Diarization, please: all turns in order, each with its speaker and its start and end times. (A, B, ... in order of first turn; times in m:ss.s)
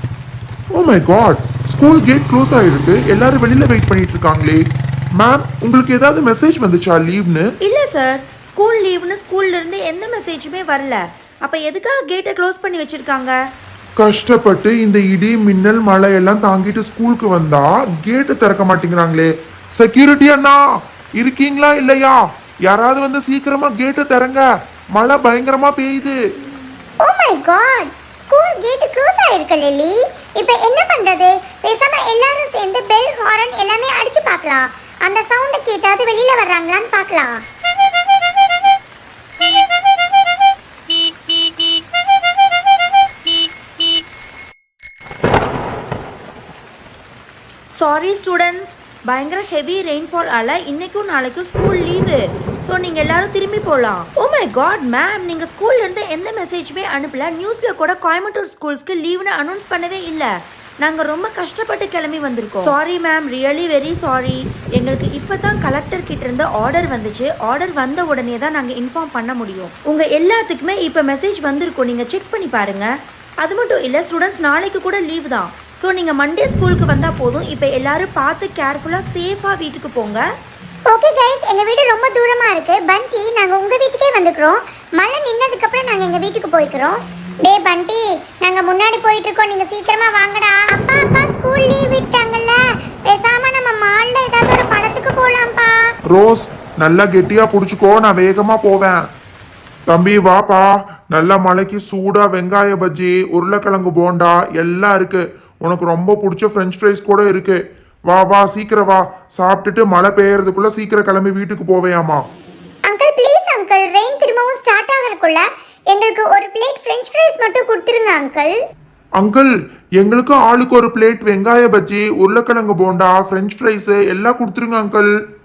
0:00.8-0:04.6 A
0:05.2-0:07.4 A
0:07.6-0:13.4 B
0:14.0-0:20.6 A
0:21.2-0:26.2 A
0:27.0-0:37.4 C
0:47.7-1:00.3 B
1:00.8-1:12.9 B
1:13.4-1:20.2 B
1:20.9-1:35.8 C
1:36.1-1:39.0 A
1:39.9-1:52.2 A
1:52.9-1:58.6 C
1:59.2-2:05.1 A